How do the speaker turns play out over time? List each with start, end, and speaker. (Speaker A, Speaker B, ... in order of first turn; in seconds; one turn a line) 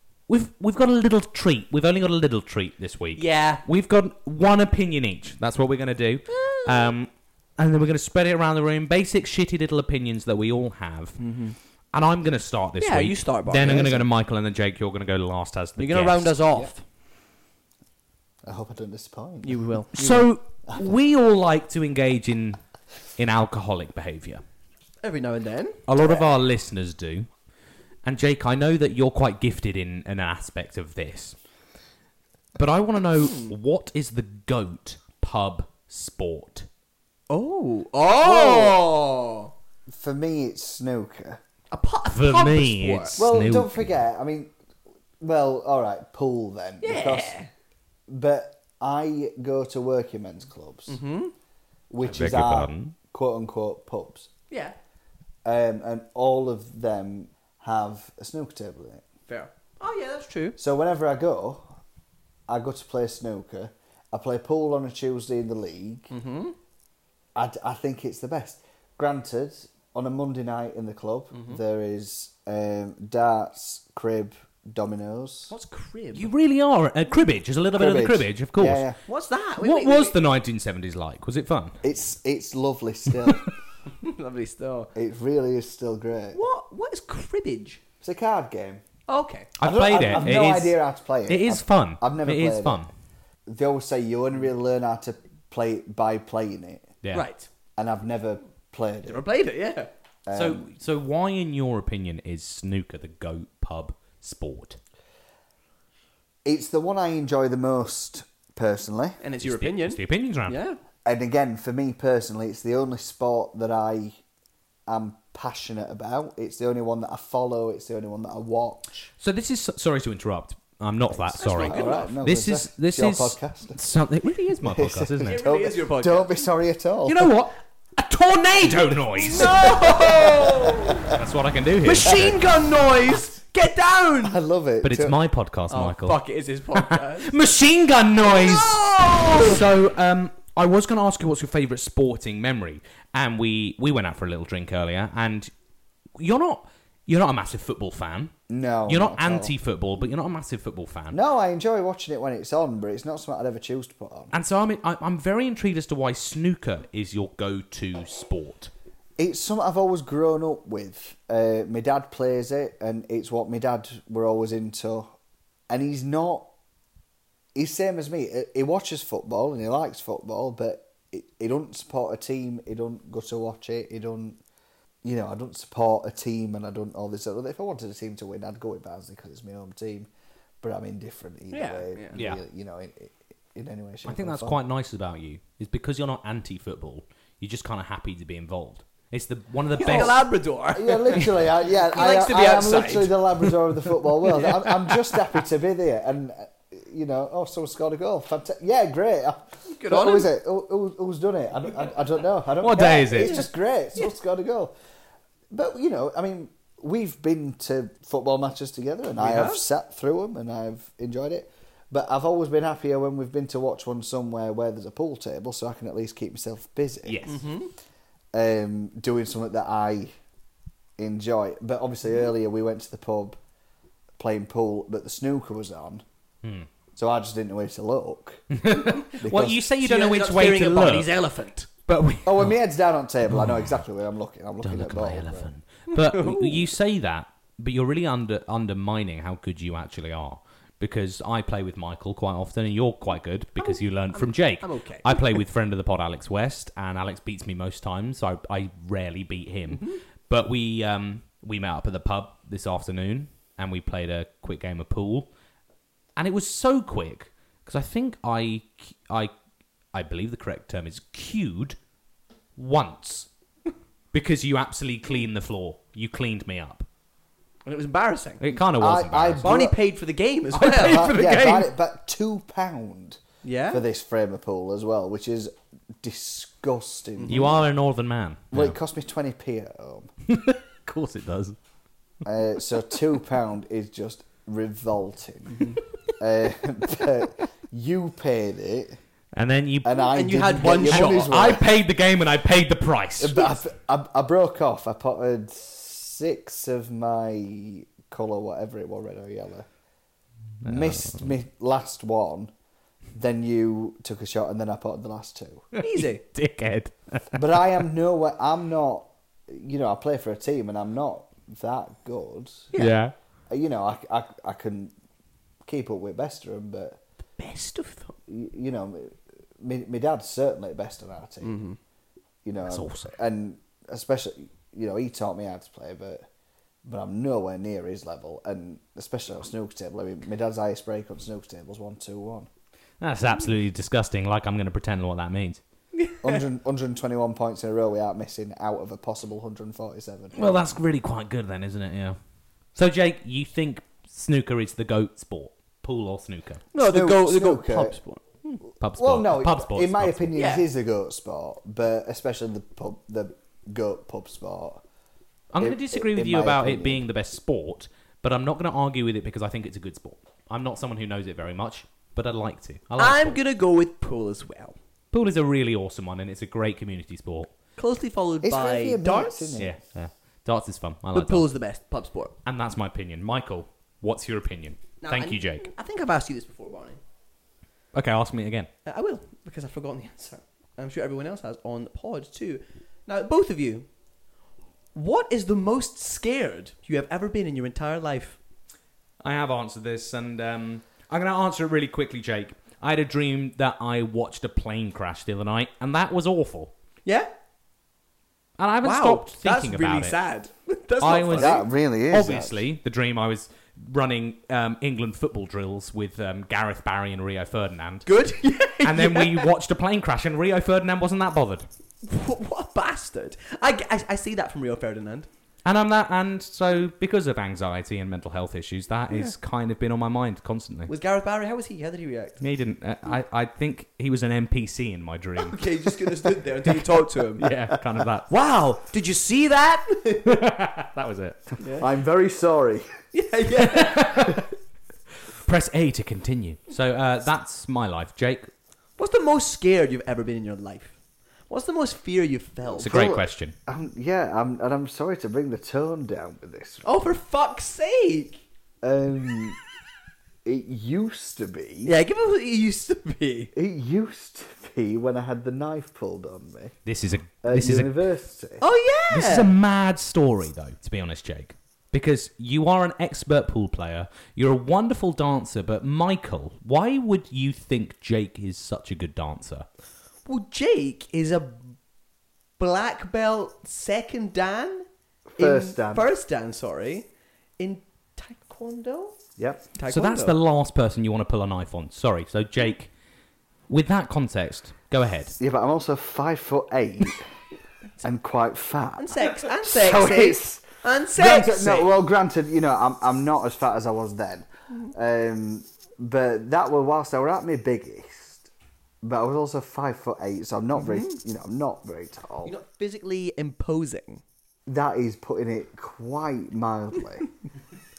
Speaker A: 0.3-11.2
Speaker B: 3.2-3.6
Speaker B: 6.3-6.9
Speaker B: 11.2-11.6
Speaker A: 11.9-16.4
Speaker B: 12.8-13.9
Speaker C: 13.6-14.1
Speaker B: 15.8-16.8
Speaker C: 18.4-19.7
Speaker B: 19.4-20.3
Speaker A: 19.9-22.6
Speaker A: 23.2-24.4
Speaker B: 25.0-25.9
Speaker A: 25.9-27.3
Speaker A: 28.0-31.4
Speaker A: 32.6-36.7
Speaker B: 33.2-33.5
Speaker B: 37.3-39.5
Speaker C: 38.2-38.8
Speaker C: 39.9-41.4
Speaker B: 41.7-43.2
Speaker A: 42.1-43.9
Speaker C: 43.2-44.5
Speaker C: 45.2-47.4
Speaker B: 46.8-47.5
Speaker C: 48.1-51.0
Speaker B: 50.9-51.3
Speaker C: 51.9-54.3
Speaker A: 52.0-53.0
Speaker B: 54.5-54.8
Speaker C: 55.5-59.0
Speaker B: 59.3-60.6
Speaker C: 60.6-61.7
Speaker C: 62.5-66.1
Speaker B: 66.1-66.6
Speaker C: 67.3-75.5
Speaker B: 71.3-71.6
Speaker B: 75.5-76.3
Speaker A: 76.1-78.9
Speaker C: 77.8-79.0
Speaker B: 79.0-80.2
Speaker A: 79.6-81.8
Speaker C: 81.8-83.5
Speaker B: 83.9-84.9
Speaker C: 85.0-86.4
Speaker B: 86.3-87.8
Speaker C: 88.0-88.8
Speaker B: 89.1-89.5
Speaker A: 89.6-92.9
Speaker C: 89.6-92.9
Speaker C: 93.5-96.9
Speaker B: 97.1-97.5
Speaker C: 97.8-99.3
Speaker B: 99.0-99.9
Speaker C: 100.3-100.7
Speaker A: 100.3-104.8
Speaker C: 106.5-109.2
Speaker B: 109.2-110.8
Speaker A: 109.4-110.6
Speaker C: 111.0-114.2
Speaker C: 114.9-119.1
Speaker A: 119.2-125.4
Speaker B: 121.4-122.2
Speaker C: 121.5-123.8
Speaker C: 124.6-127.3
Speaker B: 125.2-126.4
Speaker A: 127.0-129.6
Speaker B: 129.2-131.1
Speaker C: 129.3-131.2
Speaker A: 131.1-132.4
Speaker B: 131.8-134.4
Speaker C: 134.2-135.2
Speaker A: 134.8-136.2
Speaker B: 135.7-137.4
Speaker A: 136.8-145.5
Speaker B: 138.2-139.6
Speaker A: 146.2-148.3
Speaker C: 148.5-149.5
Speaker A: 148.9-151.2
Speaker C: 151.1-154.3
Speaker A: 154.3-158.7
Speaker C: 159.2-165.1
Speaker C: 165.7-166.5
Speaker C: 167.6-174.4
Speaker C: 175.0-180.1
Speaker C: 180.6-184.6
Speaker B: 181.5-182.2
Speaker A: 182.2-182.4
Speaker A: 184.1-190.2
Speaker B: 189.8-193.3
Speaker C: 189.8-190.2
Speaker C: 190.7-204.7
Speaker B: 194.3-194.6
Speaker B: 199.7-200.3
Speaker A: 202.6-203.4
Speaker B: 203.2-203.5
Speaker C: 205.5-217.3
Speaker B: 209.2-209.6
Speaker A: 217.1-217.4
Speaker B: 217.3-217.7
Speaker C: 218.3-220.1
Speaker C: 221.0-223.4
Speaker C: 224.2-226.0
Speaker A: 226.4-226.7
Speaker C: 227.0-228.6
Speaker A: 228.5-231.2
Speaker C: 229.2-229.6
Speaker B: 229.8-231.7
Speaker A: 231.9-232.6
Speaker C: 232.2-235.5
Speaker A: 233.3-233.8
Speaker A: 234.6-255.3
Speaker B: 235.9-236.7
Speaker B: 243.6-245.4
Speaker B: 249.7-250.0
Speaker A: 256.2-259.3
Speaker A: 259.9-261.8
Speaker A: 262.6-263.3
Speaker A: 264.1-266.9
Speaker B: 267.6-268.4
Speaker A: 268.4-269.5
Speaker C: 268.7-269.8
Speaker B: 269.4-271.2
Speaker A: 270.5-271.7
Speaker C: 270.6-277.6
Speaker B: 273.4-273.8
Speaker B: 277.2-277.6
Speaker A: 277.3-278.8
Speaker C: 278.5-280.1
Speaker A: 280.3-281.6
Speaker C: 282.2-285.7
Speaker C: 286.2-289.0
Speaker A: 289.3-290.1
Speaker C: 289.8-291.7
Speaker B: 290.1-291.4
Speaker A: 290.7-293.5
Speaker C: 293.2-299.7
Speaker A: 300.6-301.3
Speaker C: 300.6-302.5
Speaker C: 303.1-305.7
Speaker A: 305.7-307.4
Speaker B: 305.8-306.2
Speaker C: 307.3-312.7
Speaker A: 312.8-313.1
Speaker C: 313.5-314.9
Speaker C: 315.6-317.0
Speaker B: 317.4-318.1
Speaker C: 318.3-321.6
Speaker B: 321.4-321.8
Speaker C: 322.4-326.3
Speaker A: 322.6-323.1
Speaker C: 326.9-332.5
Speaker A: 333.0-335.6
Speaker B: 335.9-336.4
Speaker C: 336.2-340.6
Speaker A: 340.4-342.2
Speaker A: 342.8-346.6
Speaker B: 346.7-348.6
Speaker C: 346.8-348.0
Speaker A: 348.8-350.4
Speaker C: 349.0-354.8
Speaker B: 350.4-350.6
Speaker A: 355.5-363.4
Speaker C: 355.6-357.0
Speaker B: 363.0-364.8
Speaker A: 365.1-367.5
Speaker B: 367.8-369.6
Speaker C: 368.4-369.8
Speaker A: 369.6-371.5
Speaker B: 371.1-372.4
Speaker A: 372.4-375.7
Speaker B: 375.0-377.0
Speaker A: 377.9-378.7
Speaker B: 378.9-383.9
Speaker B: 384.9-388.4
Speaker A: 389.2-396.7
Speaker A: 398.6-400.2
Speaker B: 398.8-401.6
Speaker A: 401.0-408.1
Speaker C: 401.4-402.6
Speaker B: 408.1-409.5
Speaker A: 408.8-411.7
Speaker B: 412.0-415.3
Speaker A: 415.6-420.9
Speaker B: 420.9-422.4
Speaker A: 422.4-425.7
Speaker B: 425.4-427.5
Speaker A: 427.4-428.3
Speaker B: 428.3-430.3
Speaker A: 430.2-431.4
Speaker B: 431.6-431.9
Speaker C: 431.8-432.9
Speaker B: 433.1-434.4
Speaker A: 433.6-434.5
Speaker A: 435.3-438.5
Speaker B: 439.0-441.0
Speaker B: 441.5-442.9
Speaker A: 442.8-443.5
Speaker C: 442.8-446.9
Speaker B: 446.8-448.4
Speaker C: 448.8-449.6
Speaker C: 450.4-451.9
Speaker B: 451.9-453.5
Speaker C: 453.5-456.8
Speaker A: 456.9-458.0
Speaker C: 457.4-458.6
Speaker B: 458.6-459.5
Speaker A: 459.1-469.7
Speaker B: 470.3-471.7
Speaker B: 472.6-474.9
Speaker C: 475.4-476.1
Speaker B: 475.4-477.1
Speaker B: 477.6-479.2
Speaker C: 479.4-479.6
Speaker B: 479.8-480.4
Speaker A: 479.9-482.9
Speaker A: 483.7-485.4
Speaker C: 485.4-487.2
Speaker C: 488.0-498.5
Speaker B: 489.0-492.0
Speaker C: 499.0-502.6
Speaker B: 500.8-501.2
Speaker B: 502.4-504.2
Speaker C: 504.7-507.3